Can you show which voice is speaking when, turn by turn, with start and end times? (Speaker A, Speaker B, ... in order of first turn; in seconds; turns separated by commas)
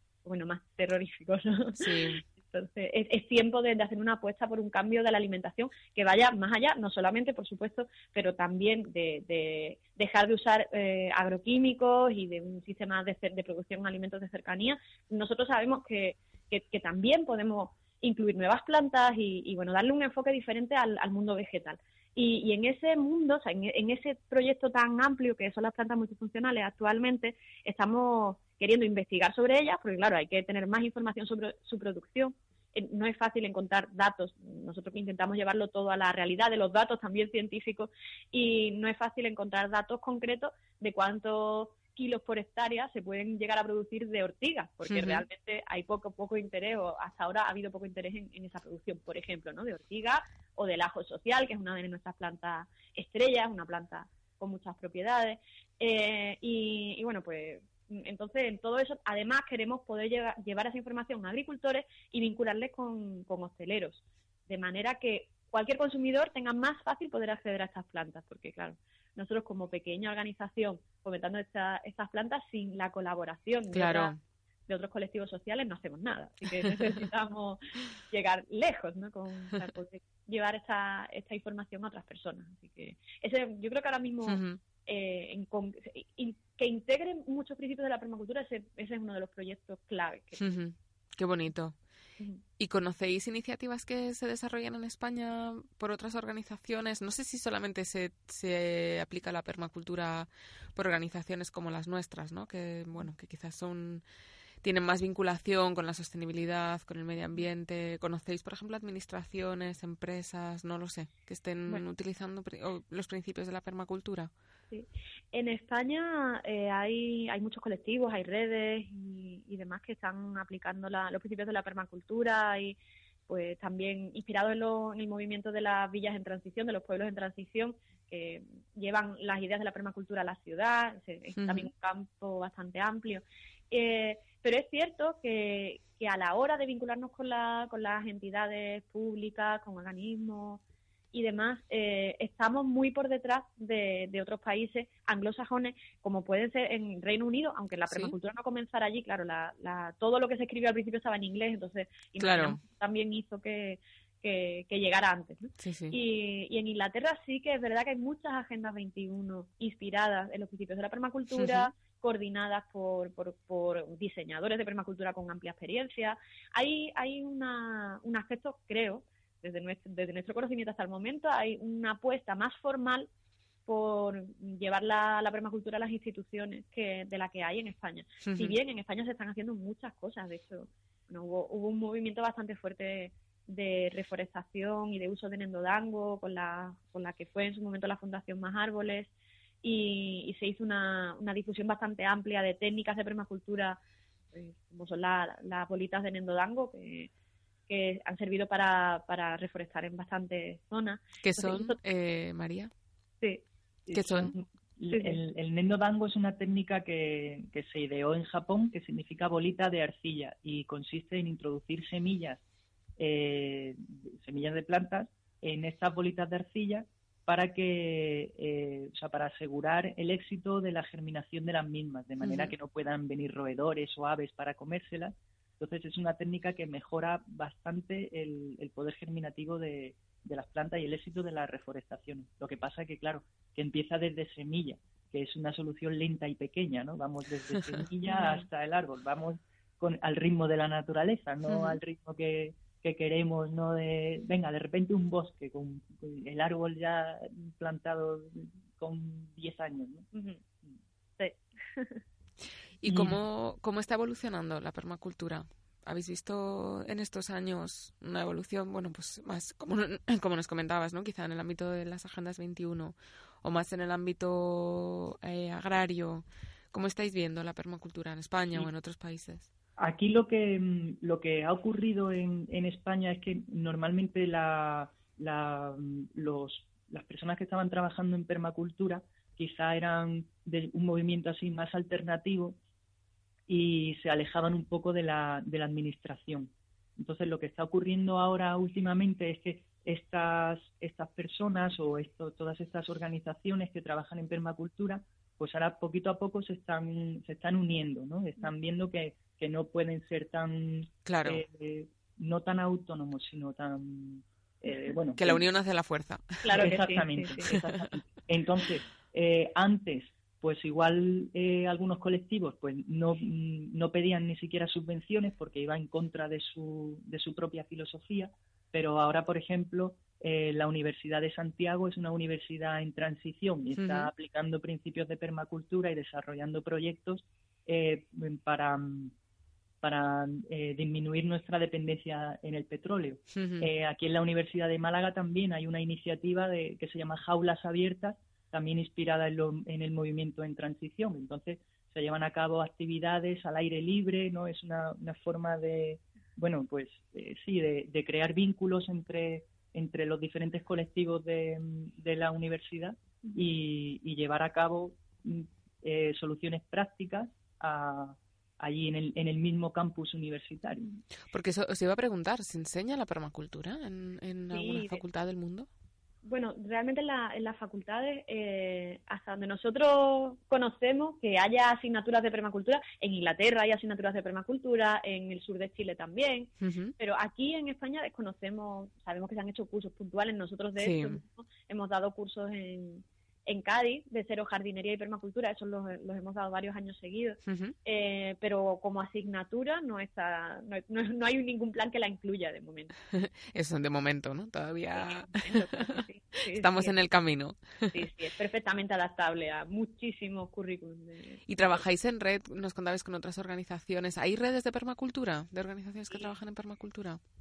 Speaker A: 0.2-74.2, Speaker B: 1.8-2.2, Speaker B: 44.9-45.2, Speaker B: 73.7-74.2, Speaker A: 74.7-90.6, Speaker B: 84.3-84.6, Speaker B: 90.4-91.8, Speaker B: 92.6-104.0, Speaker B: 104.6-114.3, Speaker A: 114.7-140.6, Speaker B: 131.4-131.7, Speaker A: 141.1-173.1, Speaker B: 147.9-148.2, Speaker B: 152.2-152.6, Speaker B: 155.6-156.0, Speaker B: 161.4-161.7, Speaker A: 173.7-189.1, Speaker B: 178.2-178.6, Speaker A: 189.6-193.8, Speaker A: 194.3-197.1, Speaker A: 197.7-201.8, Speaker B: 201.2-202.7, Speaker C: 203.9-212.4, Speaker B: 203.9-204.3, Speaker A: 204.9-205.2, Speaker C: 213.0-250.1, Speaker B: 222.2-222.5, Speaker A: 238.1-238.4, Speaker A: 250.1-250.4, Speaker A: 251.2-252.0, Speaker B: 252.8-269.5, Speaker C: 252.9-253.2, Speaker C: 269.8-282.6, Speaker C: 283.5-305.4, Speaker B: 301.1-301.4, Speaker B: 305.2-306.4, Speaker A: 306.4-307.6, Speaker C: 306.6-329.1, Speaker B: 323.8-324.1, Speaker C: 329.8-360.9, Speaker B: 333.3-333.7, Speaker B: 361.3-365.7, Speaker A: 364.5-365.0, Speaker A: 366.2-392.9, Speaker B: 376.6-376.9, Speaker B: 380.8-381.2, Speaker B: 387.4-387.8, Speaker B: 393.1-398.0, Speaker A: 394.9-397.0, Speaker A: 397.9-401.8, Speaker B: 401.5-407.2